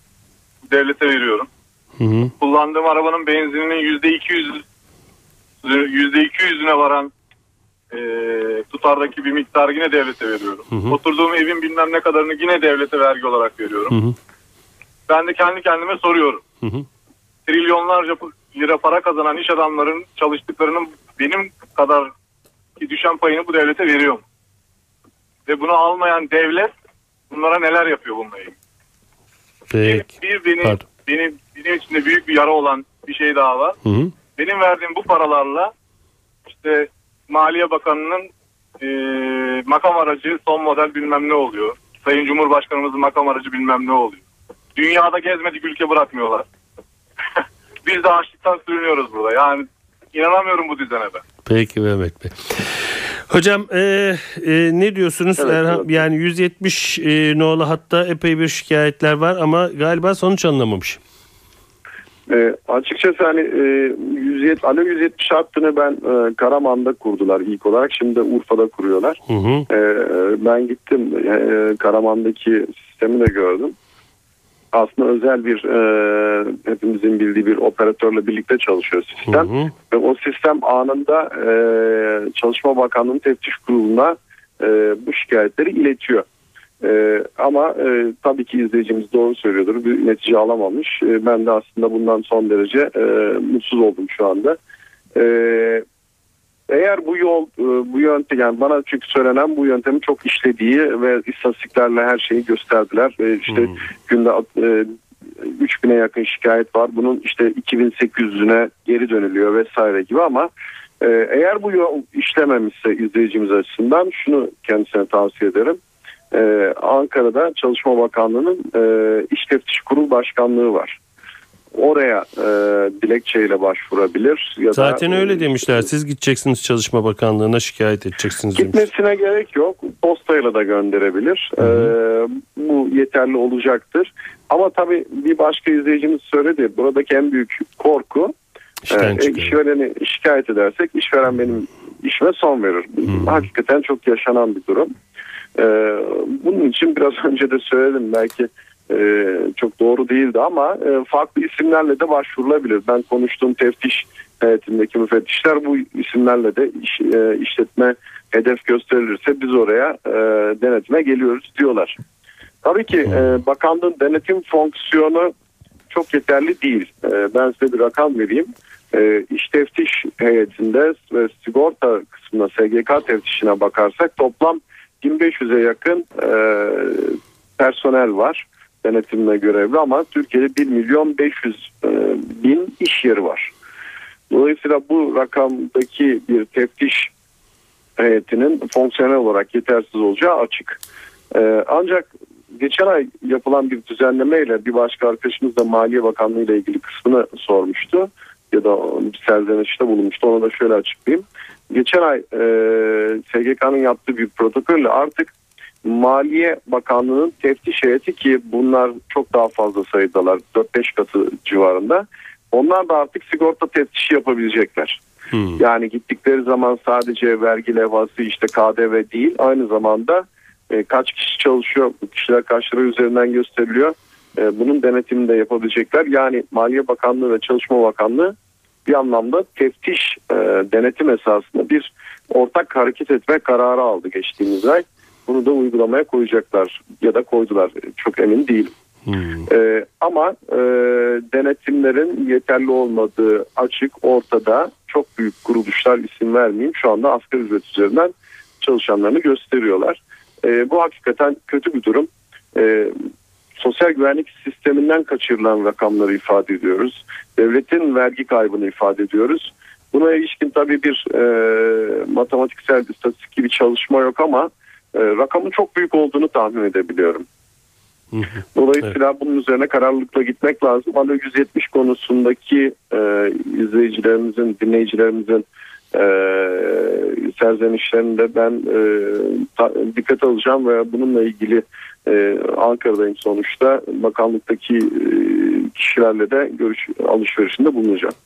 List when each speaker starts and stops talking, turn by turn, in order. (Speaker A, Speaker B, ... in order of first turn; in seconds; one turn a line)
Speaker A: 0.7-1.5
Speaker B: 2.0-2.3
Speaker A: 2.4-4.6
Speaker A: 5.6-7.1
Speaker A: 7.9-14.0
Speaker B: 10.7-11.0
Speaker B: 13.9-14.2
Speaker A: 15.1-16.4
Speaker A: 17.5-22.1
Speaker A: 22.8-24.2
Speaker A: 25.5-26.7
Speaker A: 27.3-28.5
Speaker B: 29.7-30.1
Speaker A: 29.8-33.8
Speaker B: 33.9-34.1
Speaker A: 34.4-35.7
Speaker A: 36.5-38.3
Speaker A: 38.8-44.2
Speaker A: 44.8-46.5
Speaker A: 47.9-51.2
Speaker B: 51.5-52.7
Speaker B: 53.3-61.0
Speaker C: 55.4-56.0
Speaker C: 62.3-73.8
Speaker B: 69.3-69.7
Speaker C: 74.7-86.2
Speaker B: 79.3-79.7
Speaker C: 86.8-94.6
Speaker C: 95.2-95.8
Speaker C: 96.7-110.5
Speaker B: 103.5-103.8
Speaker C: 111.0-115.8
Speaker C: 116.3-121.0
Speaker C: 121.7-125.5
Speaker B: 124.7-128.8
Speaker C: 128.6-138.3
Speaker B: 131.6-131.9
Speaker B: 138.8-139.6
Speaker C: 138.9-144.9
Speaker C: 145.6-162.0
Speaker C: 162.6-165.3
Speaker C: 165.9-183.5
Speaker C: 184.3-187.1
Speaker C: 188.0-190.8
Speaker C: 191.3-205.3
Speaker C: 205.8-215.0
Speaker B: 215.3-215.6
Speaker C: 215.6-228.3
Speaker C: 228.9-238.7
Speaker B: 239.1-239.5
Speaker C: 239.5-253.0
Speaker C: 253.6-267.2
Speaker B: 268.1-268.4
Speaker C: 268.6-288.1